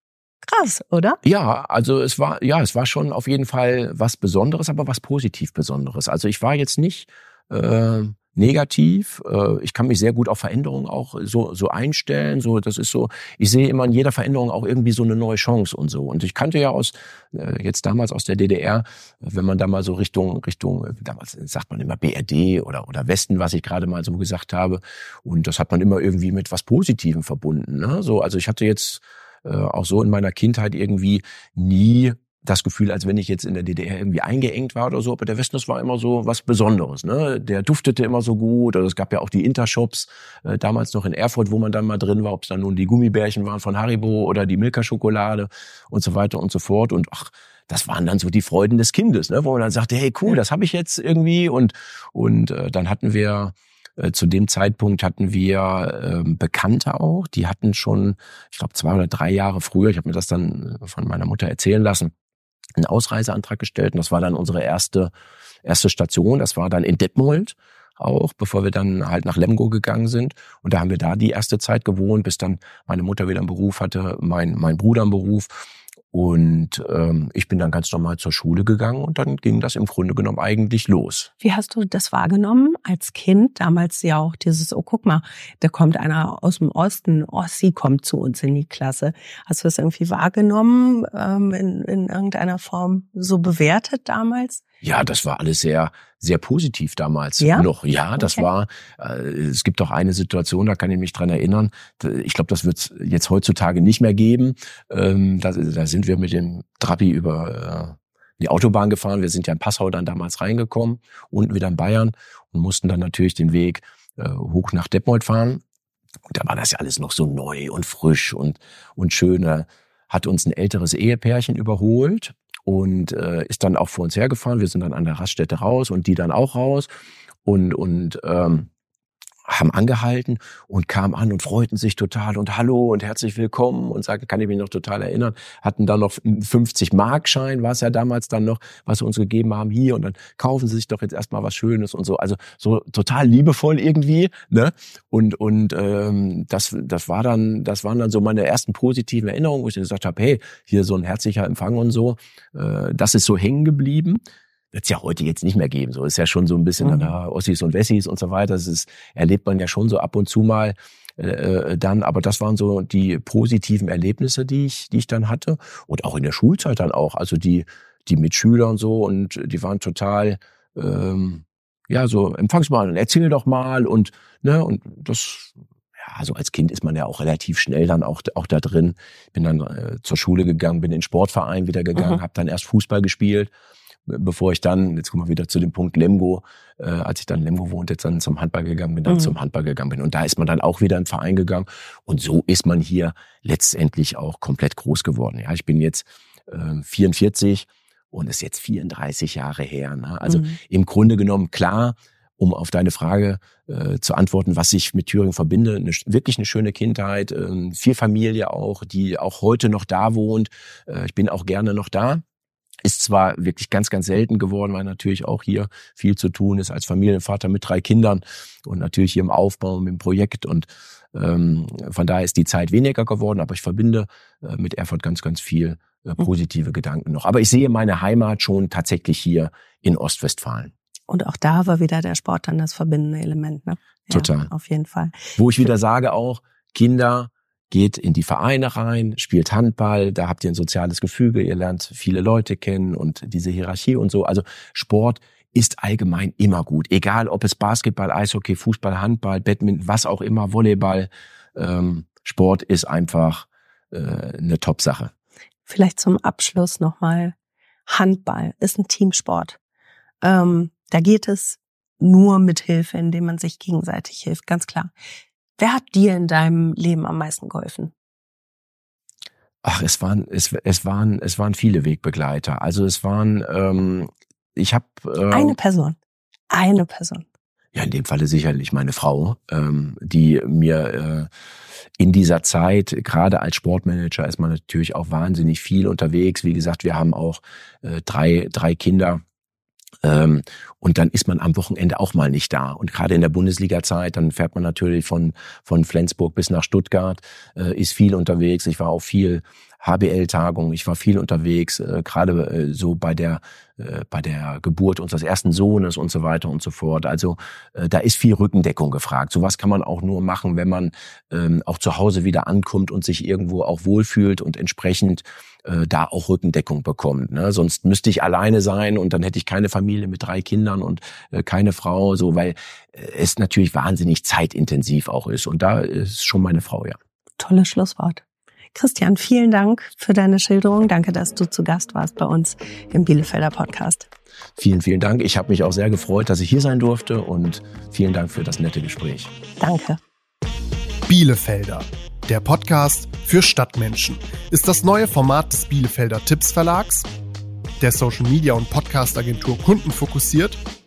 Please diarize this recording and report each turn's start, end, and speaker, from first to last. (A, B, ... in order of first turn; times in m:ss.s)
0:00.4-0:01.2 A
0:01.2-1:02.1 B
1:02.8-1:05.1 B
1:05.6-1:21.3 B
1:21.4-1:34.6 A
1:34.8-1:55.6 B
1:37.4-1:37.7 A
1:38.2-1:38.4 A
1:56.3-2:06.9 B
2:07.4-2:08.7 B
2:09.4-2:34.2 B
2:34.7-3:03.5 B
3:04.1-3:32.2 B
3:32.8-3:50.7 B
3:51.1-3:55.4 A
3:54.1-3:54.5 B
3:55.4-4:15.1 B
4:15.6-4:17.3 A
4:17.9-4:19.6 A
4:20.2-4:24.9 A
4:25.6-4:27.9 A
4:29.6-4:35.6 B
4:35.3-4:36.0 A
4:36.5-4:37.2 A
4:37.7-4:41.3 B
4:42.0-4:49.2 B
4:50.0-5:27.0 B
5:27.4-5:28.2 A
5:28.7-5:34.1 A
5:34.6-5:39.3 B
5:39.6-5:40.0 A
5:41.1-5:47.1 C
5:47.8-5:50.6 C